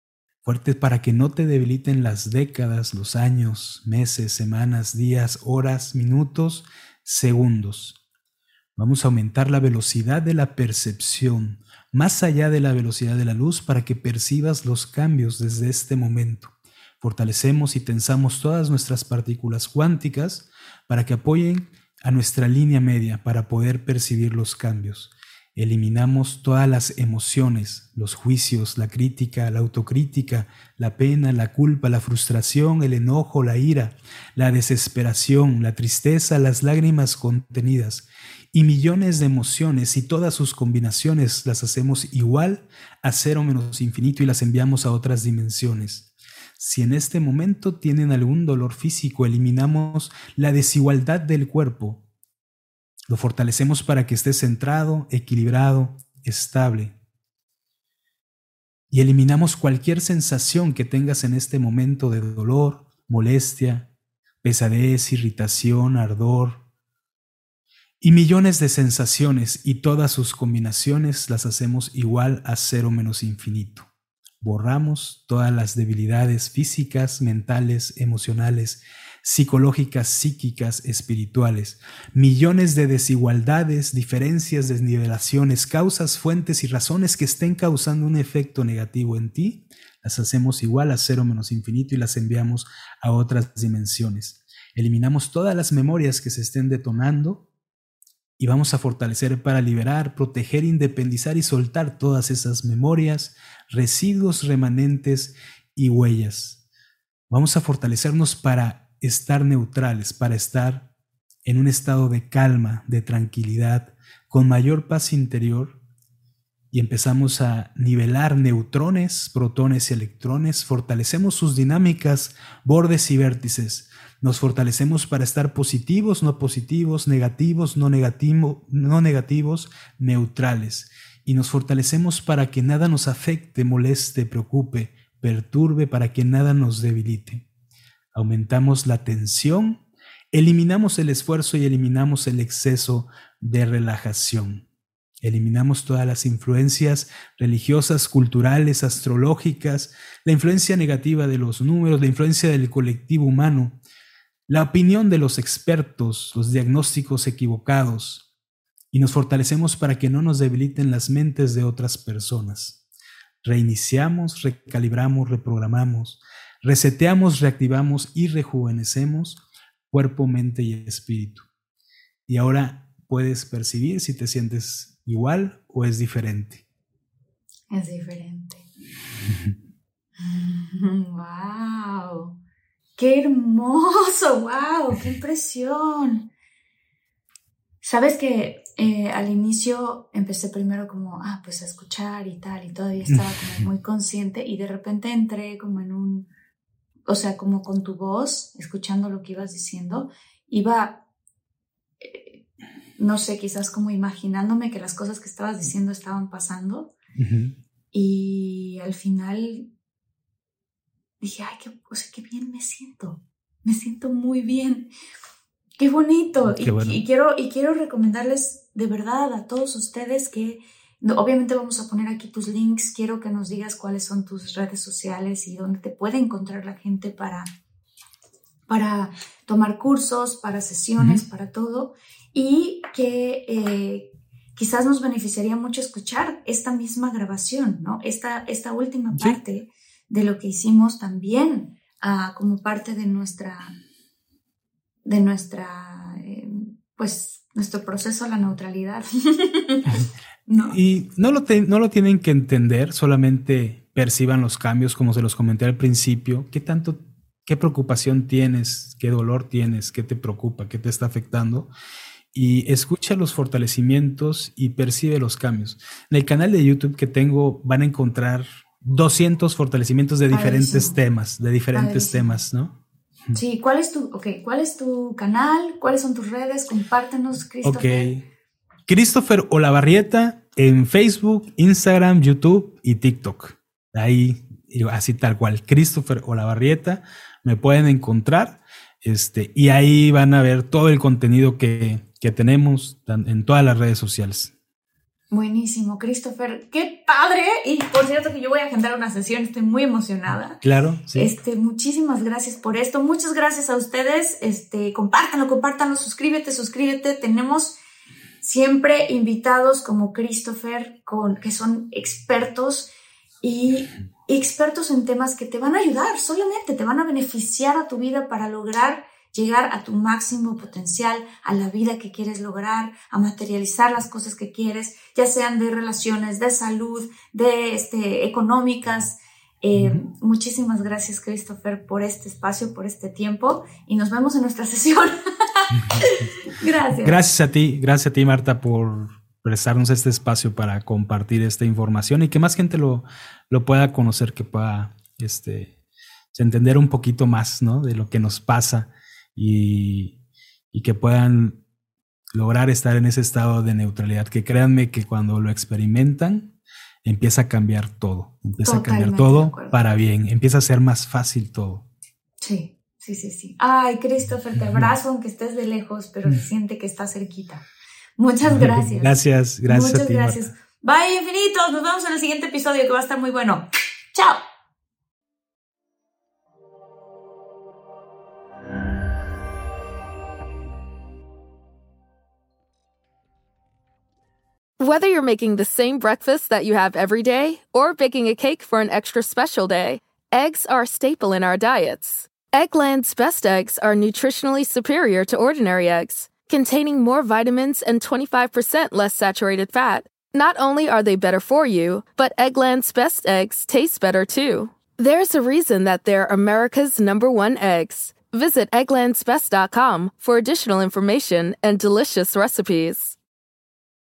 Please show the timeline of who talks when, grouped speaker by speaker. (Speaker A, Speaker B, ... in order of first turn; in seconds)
Speaker A: 0.4-8.0, 8.8-52.0, 53.1-57.0, 58.9-63.9, 64.4-66.6, 68.0-73.9, 74.4-97.5, 98.4-106.6, 107.3-110.9, 111.5-115.8, 116.7-137.5, 138.1-144.7, 145.2-153.8, 154.5-158.3, 158.9-162.8, 163.4-171.4, 172.3-176.6, 207.2-207.6, 216.5-217.0, 231.0-231.2, 250.7-261.7, 262.3-272.8, 277.6-278.2, 278.9-294.5, 300.6-301.3, 329.8-330.1, 335.8-336.3, 337.0-345.7, 346.3-350.2, 350.7-351.6, 352.3-356.5, 357.0-361.9, 368.5-370.5
Speaker B: 177.7-178.7, 180.2-182.3, 183.0-186.3, 187.8-196.3, 197.1-201.0, 202.0-202.4, 203.0-206.9, 207.9-209.7, 211.2-214.9, 215.8-227.5, 228.7-243.8, 245.1-250.8, 270.3-271.0, 271.7-272.4, 273.4-278.1, 295.3-300.6, 301.1-307.8, 308.4-312.9, 313.4-337.2, 358.6-359.8, 362.4-367.6, 368.2-374.4
Speaker C: 384.8-413.2